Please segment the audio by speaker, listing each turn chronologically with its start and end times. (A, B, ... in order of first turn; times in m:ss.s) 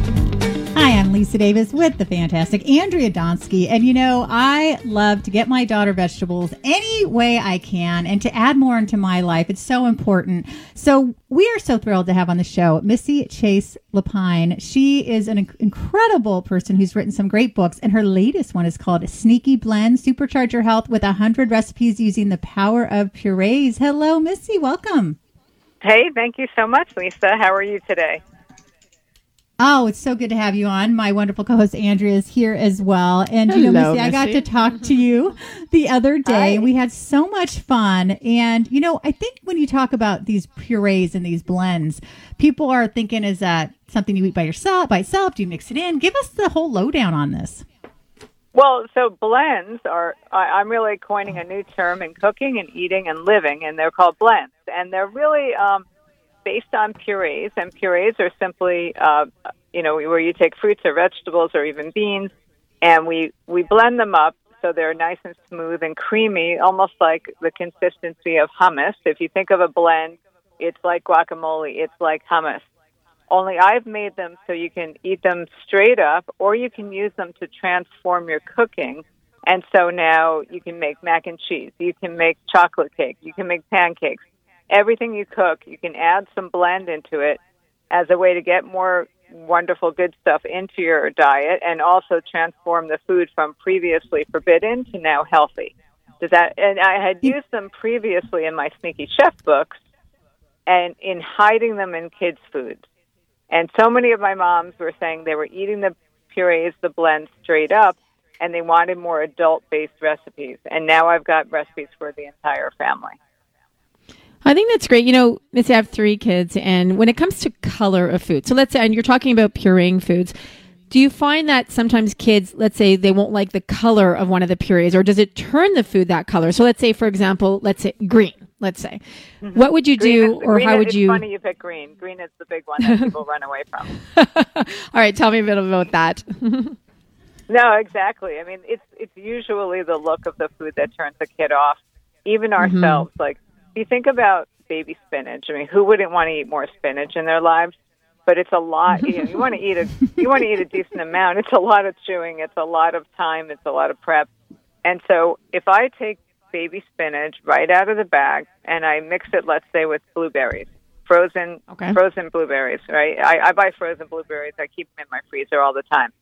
0:00.7-0:25.2 A
0:25.8-0:28.2 B
0:29.6-0:47.6 A
0:33.5-0:34.4 C
0:36.2-0:36.7 B
0:48.5-0:55.8 B
0:56.4-1:12.6 B
1:13.3-1:27.4 B
1:27.9-1:39.8 B
1:40.7-1:42.8 B
1:43.5-1:53.2 B
1:54.4-2:00.4 C
2:00.9-2:09.0 C
2:09.4-2:13.9 B
2:09.5-2:11.2 C
2:14.1-2:16.8 C
2:17.5-2:27.7 B
2:22.6-2:23.0 C
2:28.2-2:34.3 B
2:34.8-2:46.1 B
2:41.7-2:42.0 C